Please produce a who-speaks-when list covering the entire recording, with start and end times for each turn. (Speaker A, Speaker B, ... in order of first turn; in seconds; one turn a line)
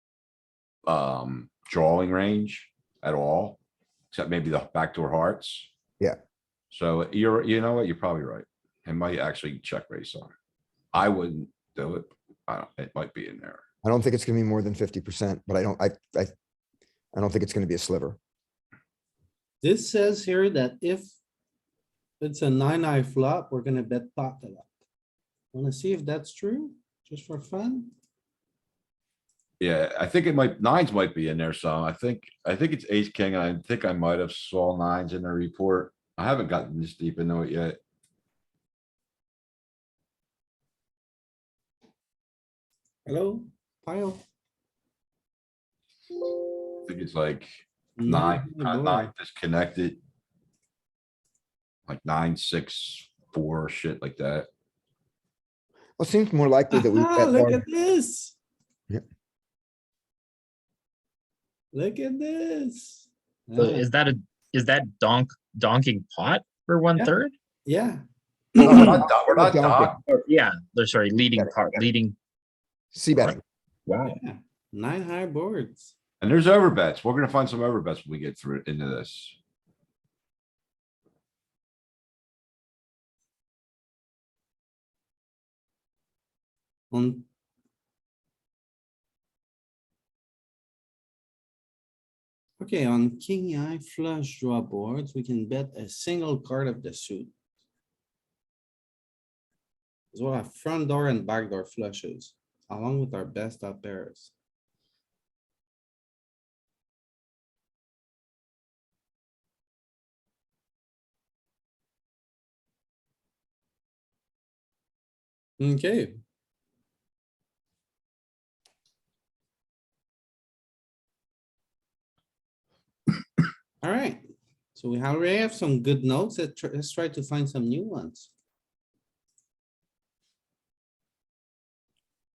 Speaker A: 0.9-3.6
Speaker A: 4.1-5.7
Speaker A: 6.7-10.3
Speaker A: 10.9-13.6
Speaker B: 13.8-16.3
Speaker B: 17.1-18.2
Speaker C: 19.6-21.1
Speaker C: 22.2-24.7
Speaker C: 25.5-27.9
Speaker A: 29.6-37.8
Speaker C: 43.1-44.2
Speaker A: 46.9-47.5
Speaker C: 48.0-49.1
Speaker A: 48.0-50.0
Speaker A: 51.9-54.5
Speaker B: 56.0-57.6
Speaker C: 56.7-58.4
Speaker C: 61.7-63.9
Speaker D: 63.6-67.3
Speaker C: 67.7-68.0
Speaker C: 68.6-68.9
Speaker A: 68.6-70.0
Speaker B: 68.6-70.0
Speaker D: 70.1-72.2
Speaker B: 71.4-71.9
Speaker B: 72.9-73.4
Speaker D: 73.9-74.2
Speaker C: 74.1-75.9
Speaker A: 76.2-79.4
Speaker C: 86.9-87.3
Speaker C: 92.6-97.3
Speaker C: 100.1-104.3
Speaker C: 115.6-116.2
Speaker C: 123.8-124.2
Speaker C: 124.8-128.3